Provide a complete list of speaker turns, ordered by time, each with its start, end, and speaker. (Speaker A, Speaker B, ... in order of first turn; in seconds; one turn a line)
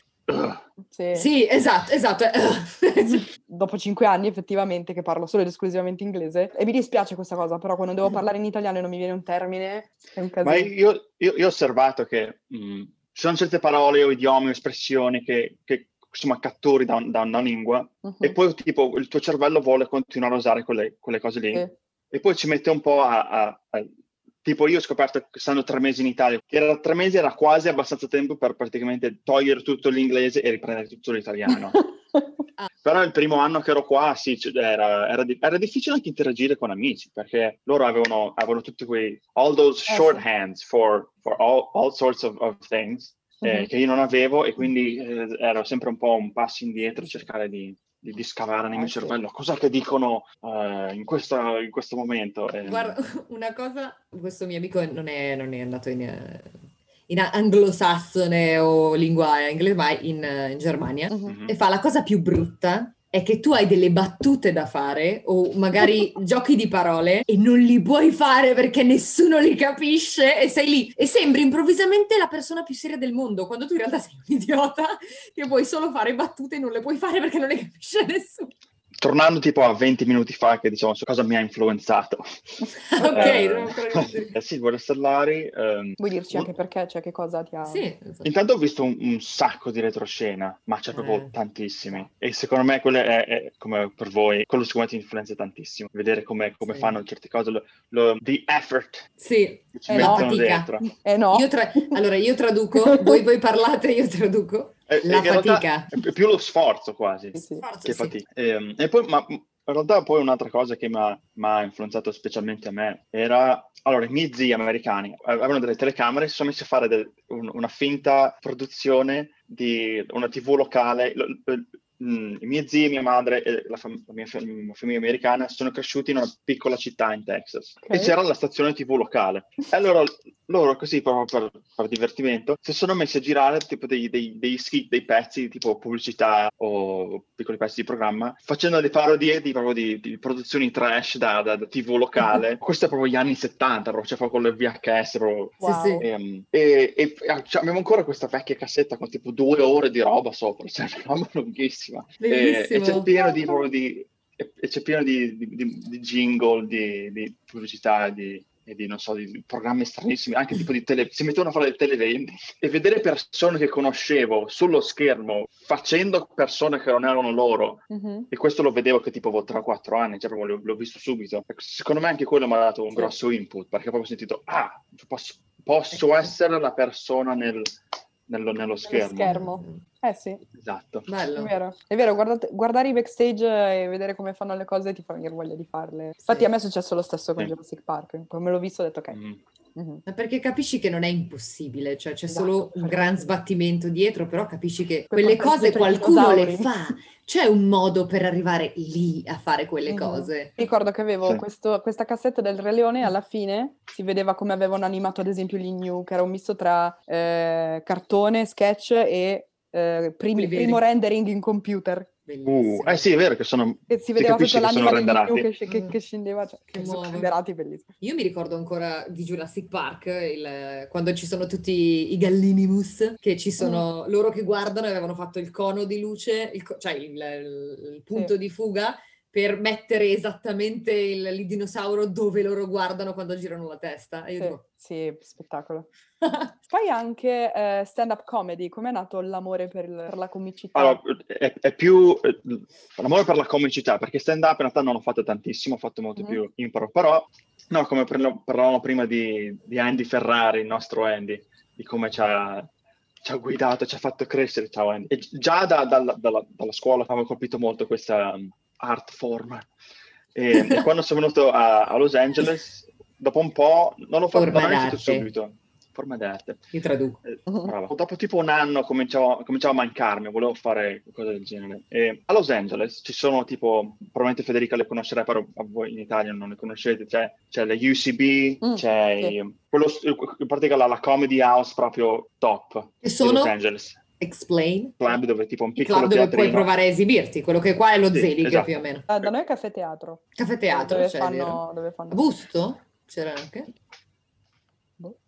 Speaker A: 0.3-0.6
Speaker B: 0.9-1.3
Speaker C: 1.1-3.2
Speaker B: 3.1-10.7
Speaker A: 10.4-23.9
Speaker B: 18.0-18.4
Speaker A: 24.4-31.8
Speaker A: 32.8-53.0
Speaker B: 39.9-40.2
Speaker B: 43.4-43.7
Speaker B: 48.7-49.2
Speaker C: 52.6-78.5
Speaker A: 61.3-61.5
Speaker A: 79.0-82.5
Speaker C: 82.9-84.3
Speaker A: 83.0-86.5
Speaker B: 86.0-87.8
Speaker C: 87.6-88.3
Speaker A: 88.2-99.0
Speaker C: 90.9-91.3
Speaker C: 96.7-97.0
Speaker C: 99.2-100.7
Speaker A: 99.7-100.9
Speaker B: 99.9-102.0
Speaker C: 101.3-106.0
Speaker B: 102.8-103.2
Speaker A: 104.9-177.7
Speaker B: 107.3-107.6
Speaker C: 107.6-108.2
Speaker B: 127.8-128.1
Speaker B: 145.6-146.0
Speaker C: 145.6-146.0
Speaker C: 152.2-153.1
Speaker B: 167.9-168.3
Speaker C: 175.9-176.3
Speaker A: 178.3-179.4
Speaker B: 178.9-180.4
Speaker C: 179.2-179.8
Speaker A: 180.5-181.1
Speaker C: 181.1-181.5
Speaker B: 181.4-189.2
Speaker C: 186.2-186.5
Speaker A: 189.1-189.4
Speaker B: 189.8-190.0
Speaker C: 190.1-200.5
Speaker B: 192.3-193.3
Speaker B: 195.1-196.7
Speaker B: 199.9-212.1
Speaker C: 210.3-210.8
Speaker C: 212.3-213.0
Speaker A: 212.4-215.5
Speaker B: 213.9-217.9
Speaker C: 215.7-215.9
Speaker C: 216.7-217.3
Speaker C: 218.0-234.6
Speaker B: 223.6-223.8
Speaker B: 234.4-235.9
Speaker C: 236.2-236.5
Speaker B: 236.7-241.0
Speaker A: 240.7-252.7
Speaker A: 253.2-259.7
Speaker A: 260.3-266.6
Speaker C: 260.5-260.8
Speaker C: 264.3-265.3
Speaker C: 266.7-267.2
Speaker A: 267.2-284.0
Speaker B: 267.5-267.7
Speaker B: 278.6-279.3
Speaker C: 283.0-283.5
Speaker C: 284.2-285.1
Speaker A: 285.0-286.7
Speaker C: 285.7-289.1
Speaker A: 288.1-288.7
Speaker B: 289.1-292.2
Speaker C: 290.4-293.7